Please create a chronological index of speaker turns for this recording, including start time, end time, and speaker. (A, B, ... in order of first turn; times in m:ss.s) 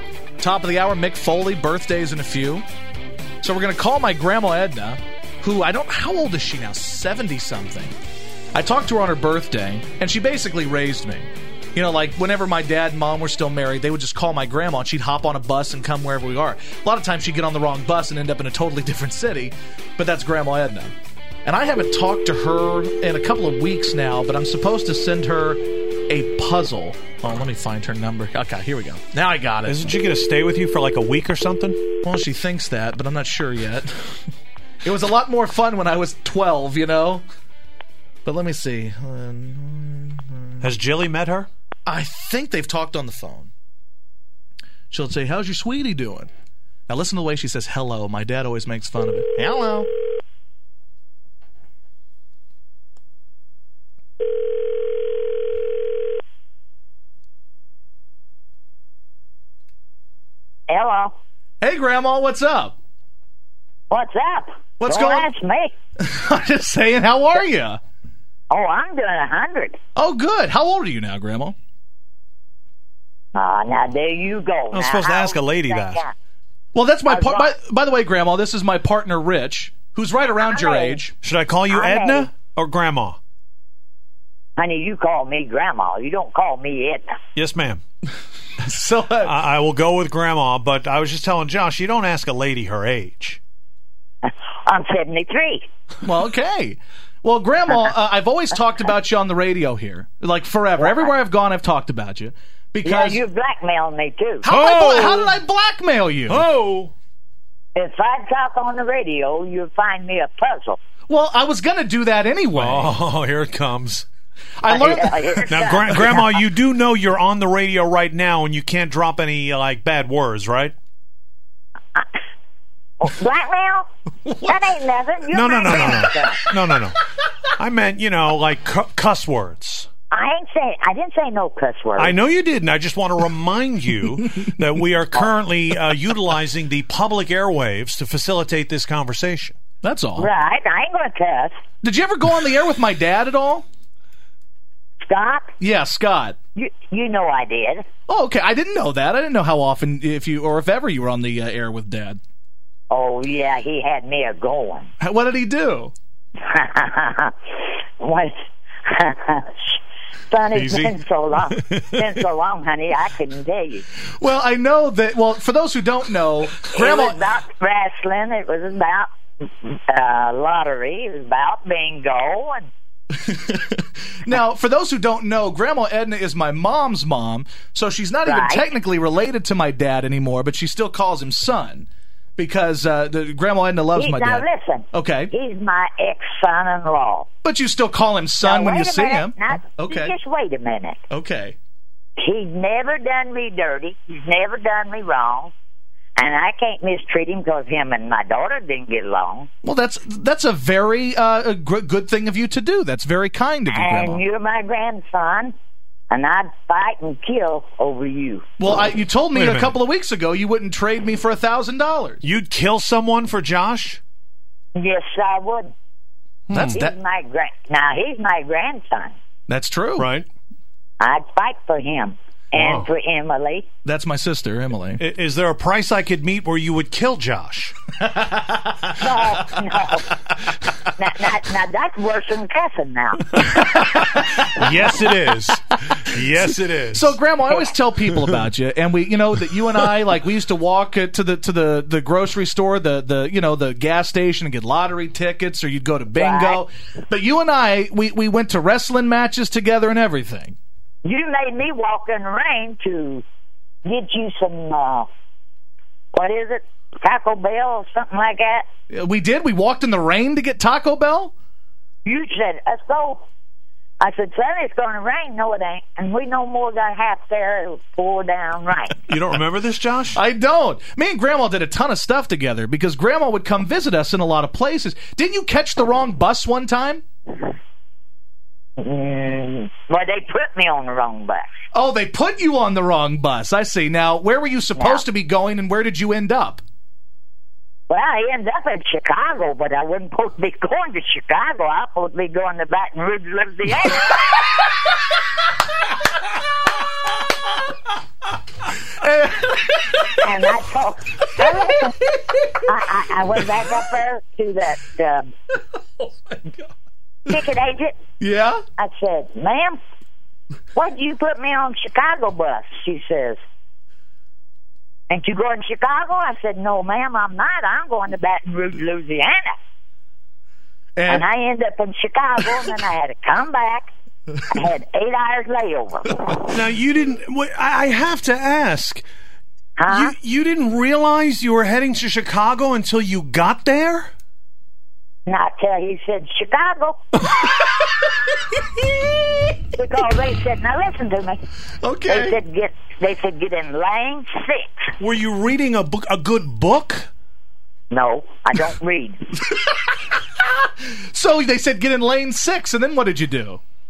0:00.4-0:02.7 A
0:03.4-0:08.0 A
0:08.5-0:20.9 A
0:21.4-0:29.9 A
0:29.7-0:31.9 B
0:32.0-0:33.9 A
0:34.8-0:37.2 A
0:38.2-0:40.6 A
0:40.6-0:41.5 B
0:41.9-0:43.5 A
0:44.9-0:46.3 A
0:46.9-0:49.9 A
1:00.7-1:01.2 C
1:01.6-1:02.8 A
1:03.9-1:05.7 C
1:04.8-1:05.3 A
1:06.0-1:07.8 A
1:08.5-1:09.8 C
1:10.0-1:11.6 A
1:13.4-1:16.1 C
1:14.7-1:16.0 B
1:16.7-1:21.1 A
1:17.1-1:17.6 C
1:20.4-1:21.0 C
1:21.2-1:23.2 B
1:21.7-1:22.4 C
1:24.6-1:27.2 C
1:27.4-1:27.8 B
1:28.6-1:29.3 A
1:29.2-1:33.4 B
1:34.2-1:35.6 C
1:36.0-1:43.2 A
1:40.8-1:41.1 C
1:42.8-1:44.5 C
1:44.4-1:46.4 A
1:44.5-1:45.4 B
1:46.3-1:46.9 B
1:47.8-1:50.8 C
1:51.1-1:52.9 A
1:52.5-1:54.1 B
1:54.6-1:55.5 A
1:54.7-1:56.3 C
1:55.5-2:00.8 B
2:03.0-2:03.9 C
2:04.2-2:04.7 A
2:04.4-2:06.5 C
2:05.3-2:07.0 B
2:07.6-2:09.9 B
2:10.1-2:12.1 C
2:12.0-2:19.6 B
2:19.8-2:20.3 A
2:20.2-2:21.6 C
2:21.8-2:23.6 A
2:25.0-2:25.5 C
2:25.6-2:26.4 A
2:26.6-2:27.9 C
2:28.1-2:32.2 A
2:32.9-2:34.9 C
2:35.0-2:35.9 A
2:36.4-2:38.4 C
2:38.9-2:43.9 C
2:40.5-2:42.1 B
2:44.1-2:47.2 A
2:46.6-2:52.7 C
2:53.1-3:05.3 A
2:58.2-2:58.7 C
3:04.0-3:07.3 C
3:07.4-3:10.2 A
3:08.4-3:11.0 C
3:11.1-3:11.6 A
3:12.2-3:15.5 C
3:16.2-3:19.5 C
3:19.6-3:24.2 A
3:23.7-3:25.5 C
3:26.1-3:28.5 C
3:28.6-3:32.2 A
3:29.3-3:29.8 B
3:32.2-3:34.0 B
3:34.8-3:35.7 C
3:36.5-3:36.8 B
3:36.5-3:36.9 A
3:36.7-3:39.2 C
3:39.5-3:40.1 A
3:40.0-3:40.3 B
3:41.0-3:43.7 C
3:42.5-3:42.9 B
3:43.8-3:45.0 A
3:45.0-3:47.8 B
3:48.0-3:49.4 A
3:49.0-3:50.2 C
3:51.0-3:53.4 C
3:53.5-3:57.2 B
3:53.6-3:54.4 A
3:56.9-4:10.6 A
4:06.2-4:06.6 C
4:11.0-4:13.2 C
4:13.8-4:15.1 C
4:16.1-4:18.7 C
4:18.9-4:21.3 A
4:22.0-4:23.2 C
4:24.0-4:29.2 C
4:29.1-4:30.2 B
4:30.2-4:37.0 A
4:38.8-4:41.5 C
4:41.7-4:46.6 A
4:44.8-4:45.1 C
4:47.9-4:54.8 C
4:58.9-5:00.2 A
5:00.2-5:02.0 C
5:01.4-5:02.5 A
5:02.6-5:05.3 C
5:06.3-5:06.6 A
5:07.3-5:08.0 C
5:08.2-5:08.6 A
5:08.8-5:09.8 C
5:10.8-5:13.4 C
5:15.1-5:19.6 C
5:21.0-5:21.2 A
5:21.1-5:23.9 C
5:24.5-5:26.4 C
5:26.4-5:29.0 B
5:29.8-5:30.2 C
5:29.9-5:34.1 B
5:35.3-5:37.0 C
5:39.8-5:41.4 C
5:41.8-5:42.4 A
5:42.1-5:44.9 C
5:45.0-5:47.1 B
5:47.9-5:49.4 C
5:50.8-5:53.6 A